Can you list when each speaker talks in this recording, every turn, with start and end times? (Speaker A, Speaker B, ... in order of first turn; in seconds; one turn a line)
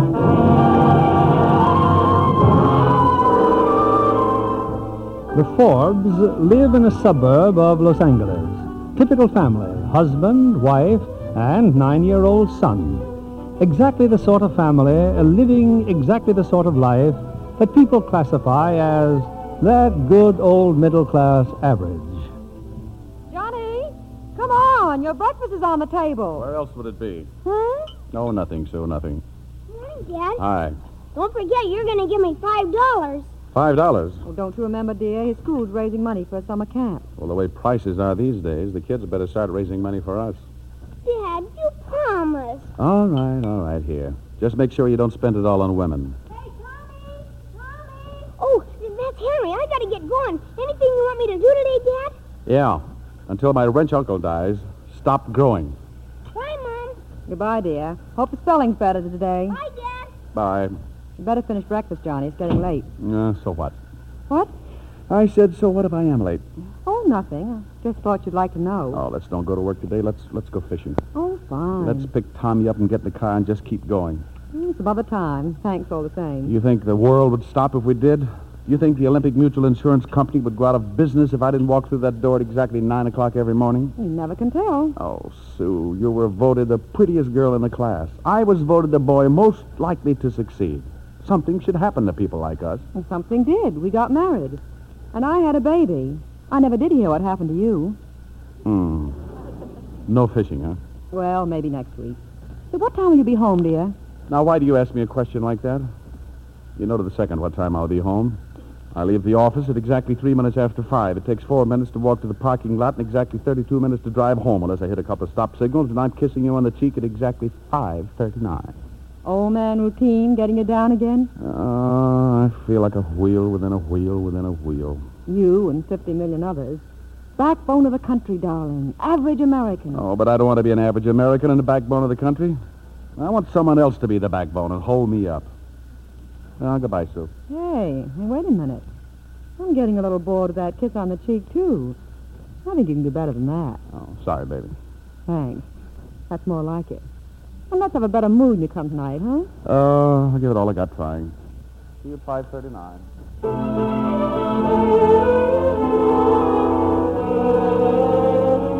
Speaker A: 5.3-13.1
Speaker A: 13.6-22.3
Speaker B: 23.3-26.4
Speaker C: 26.3-27.3
Speaker C: 28.1-29.2
Speaker D: 29.7-30.4
Speaker C: 30.4-30.8
Speaker D: 31.1-33.3
Speaker C: 33.5-34.2
Speaker B: 34.2-37.1
Speaker C: 37.2-40.5
Speaker D: 41.0-42.7
Speaker C: 42.8-46.2
Speaker D: 47.7-52.2
Speaker C: 52.5-55.8
Speaker D: 56.3-57.0
Speaker B: 57.3-59.6
Speaker D: 59.5-60.2
Speaker C: 60.3-60.8
Speaker B: 61.2-62.9
Speaker C: 63.0-63.8
Speaker C: 65.1-66.4
Speaker B: 66.9-69.0
Speaker C: 68.9-71.0
Speaker B: 71.2-72.1
Speaker C: 71.8-74.2
Speaker B: 74.5-76.5
Speaker C: 76.5-84.0
Speaker B: 84.0-85.0
Speaker C: 85.0-92.8
Speaker B: 92.9-94.6
Speaker B: 95.1-98.0
Speaker C: 98.7-99.2
Speaker C: 100.1-100.8
Speaker B: 101.1-102.2
Speaker B: 102.7-104.0
Speaker C: 104.3-105.9
Speaker C: 106.8-108.4
Speaker C: 108.9-118.8
Speaker B: 119.2-121.3
Speaker C: 121.4-125.1
Speaker B: 125.3-126.8
Speaker B: 127.4-130.0
Speaker C: 129.9-132.6
Speaker C: 133.2-135.5
Speaker C: 136.6-137.3
Speaker B: 137.5-138.8
Speaker B: 139.6-142.0
Speaker B: 142.6-143.8
Speaker C: 143.9-144.7
Speaker B: 145.3-145.7
Speaker B: 146.3-147.1
Speaker B: 147.7-149.5
Speaker C: 149.6-151.3
Speaker C: 152.0-153.1